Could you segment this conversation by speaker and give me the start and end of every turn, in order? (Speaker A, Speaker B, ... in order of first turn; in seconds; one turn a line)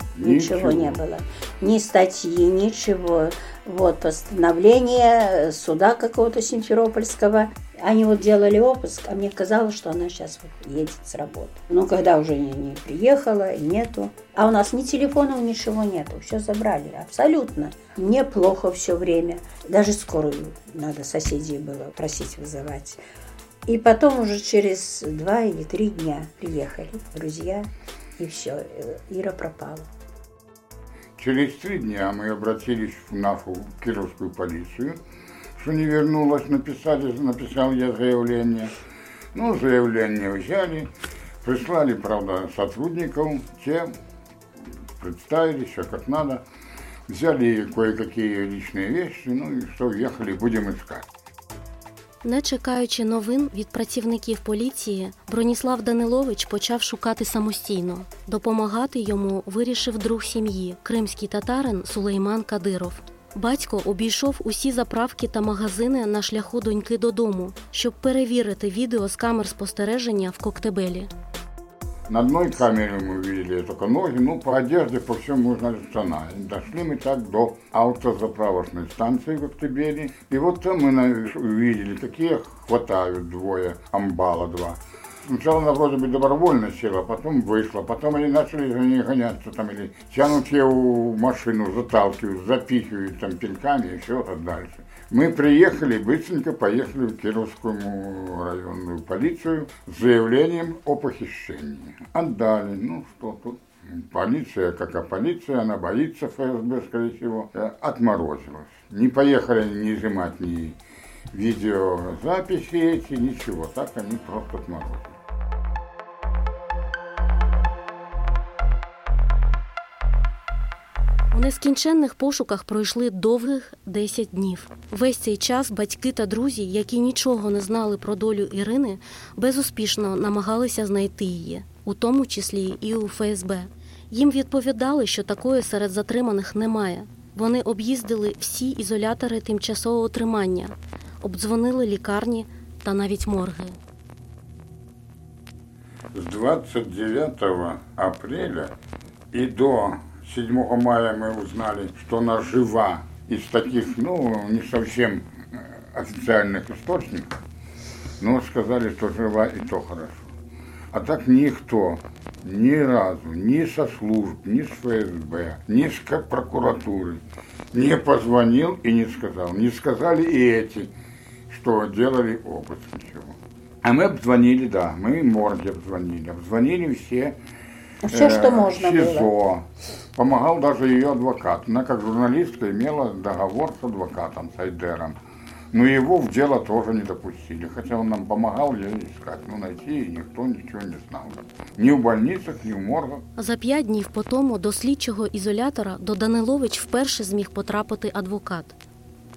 Speaker A: 0.1-1.0
Speaker B: 0.2-23.0
Speaker B: 23.7-29.9
Speaker A: 31.2-35.0
Speaker A: 35.6-38.7
Speaker A: 39.3-40.9
Speaker A: 41.4-43.9
Speaker A: 45.0-46.4
Speaker A: 47.1-51.1
Speaker C: 52.2-71.1
Speaker A: 72.1-110.8
Speaker A: 111.3-115.2
Speaker C: 121.3-143.8
Speaker A: 146.1-148.7
Speaker A: 149.3-157.4
Speaker A: 158.2-160.3
Speaker A: 160.9-170.9
Speaker A: 171.5-177.3
Speaker B: 178.0-179.3
Speaker A: 178.1-185.2
Speaker A: 185.7-193.2
Speaker C: 193.4-198.8